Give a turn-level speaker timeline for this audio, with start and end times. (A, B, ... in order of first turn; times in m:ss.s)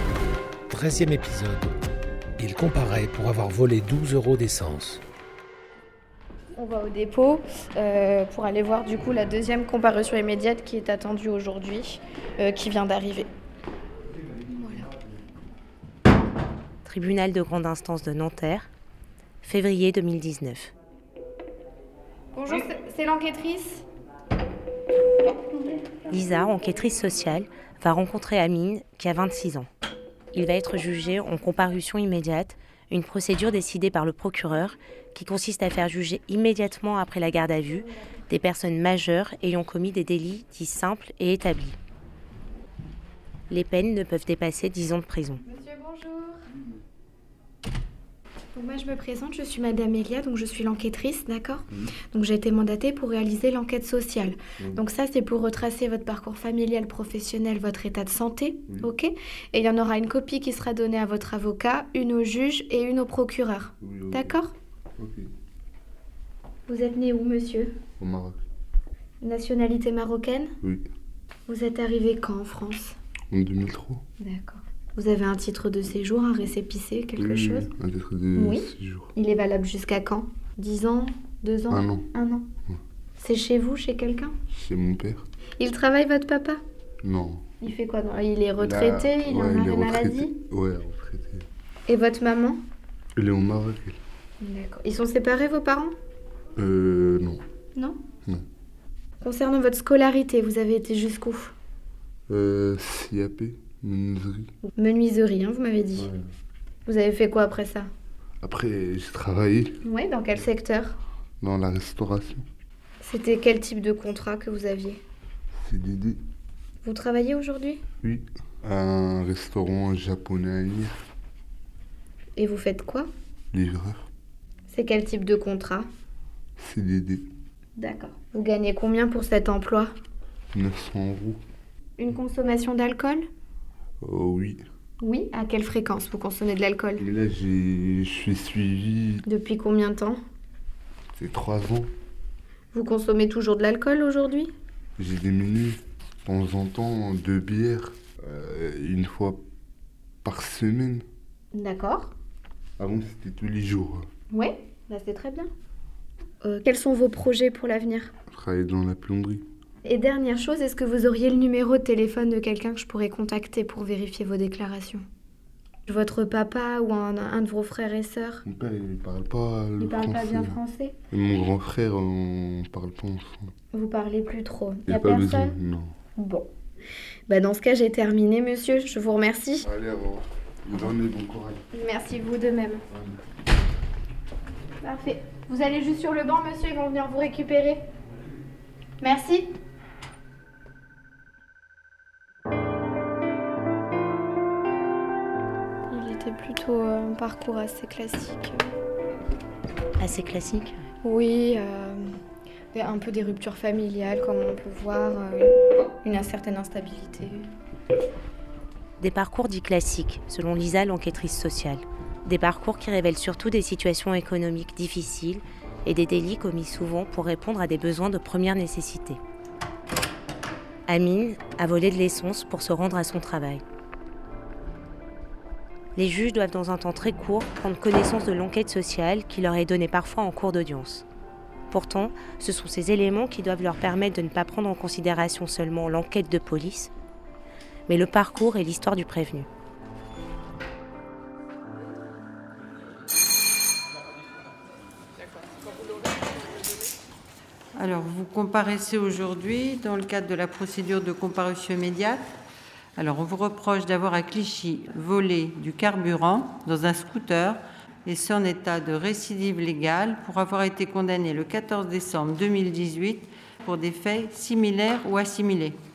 0:00.7-0:01.7 A
0:02.4-0:05.0 A
0:06.6-0:13.3 B
0:14.6-0:14.9 B
0:16.8-0:18.7 C
0:19.4-0:20.7 C
0:22.3-0:23.8 B
0:25.5-0:25.8 B
0:26.1-0:29.7 C
0:30.3-0:41.8 C
0:43.5-0:45.4 C
0:45.4-0:46.4 B
0:48.6-1:04.5 B
1:03.8-1:04.4 D
1:05.0-1:05.3 D
1:06.7-1:07.7 B
1:08.0-1:08.4 D
1:09.2-1:10.5 B
1:11.5-1:13.0 B
1:13.3-1:14.0 D
1:14.2-1:17.7 B
1:17.2-1:19.1 D
1:18.4-1:22.4 B
1:21.7-1:22.1 D
1:23.2-1:24.3 B
1:24.5-1:25.2 D
1:25.6-1:26.6 B
1:27.0-1:27.4 D
1:27.6-1:30.3 B
1:28.6-1:31.4 D
1:31.9-1:32.6 B
1:33.2-1:34.0 D
1:34.4-1:35.9 B
1:36.6-1:37.4 D
1:39.2-1:41.5 B
1:42.3-1:44.5 D
1:44.8-1:46.1 B
1:46.0-1:46.2 D
1:46.9-1:47.9 B
1:48.4-1:49.8 D
1:49.8-1:51.0 B
1:51.4-1:52.4 D
1:53.0-1:55.0 B
1:55.6-1:56.2 D
1:56.8-1:57.8 B
1:58.0-2:01.0 D
2:02.4-2:03.1 B
2:03.5-2:04.1 D
2:04.7-2:05.9 B
2:06.6-2:07.3 D
2:07.8-2:09.9 B
2:10.5-2:11.4 D
2:12.0-2:13.3 B
2:14.0-2:14.6 D
2:15.0-2:17.0 B
2:17.0-2:19.2 D
2:19.3-2:20.2 B
2:21.2-2:21.9 D
2:22.7-2:24.5 B
2:25.0-2:29.4 D
2:30.2-2:31.0 D
2:31.5-2:32.1 B
2:32.8-2:34.1 D
2:34.3-2:35.5 B
2:36.4-2:38.1 B
2:38.3-2:39.5 D
2:39.8-2:45.0 B
2:45.9-2:48.4 B
2:48.5-2:53.5 D
2:49.8-2:51.0 B
2:53.7-2:55.5 B
2:54.9-2:56.0 D
2:56.2-2:56.5 B
2:57.3-2:59.6 B
2:59.6-3:01.6 D
3:01.7-3:02.8 B
3:04.8-3:07.8 B
3:09.0-3:09.5 B
3:15.9-3:18.6 B
3:20.0-3:20.8 C
3:21.0-3:22.0 B
3:22.7-3:27.5 B
3:29.0-3:39.2 C
3:40.9-3:43.6 C
3:46.0-3:51.0 C
3:51.7-3:56.9 C
3:57.9-3:59.5 C
4:07.8-4:12.3 E
4:13.0-4:25.8 E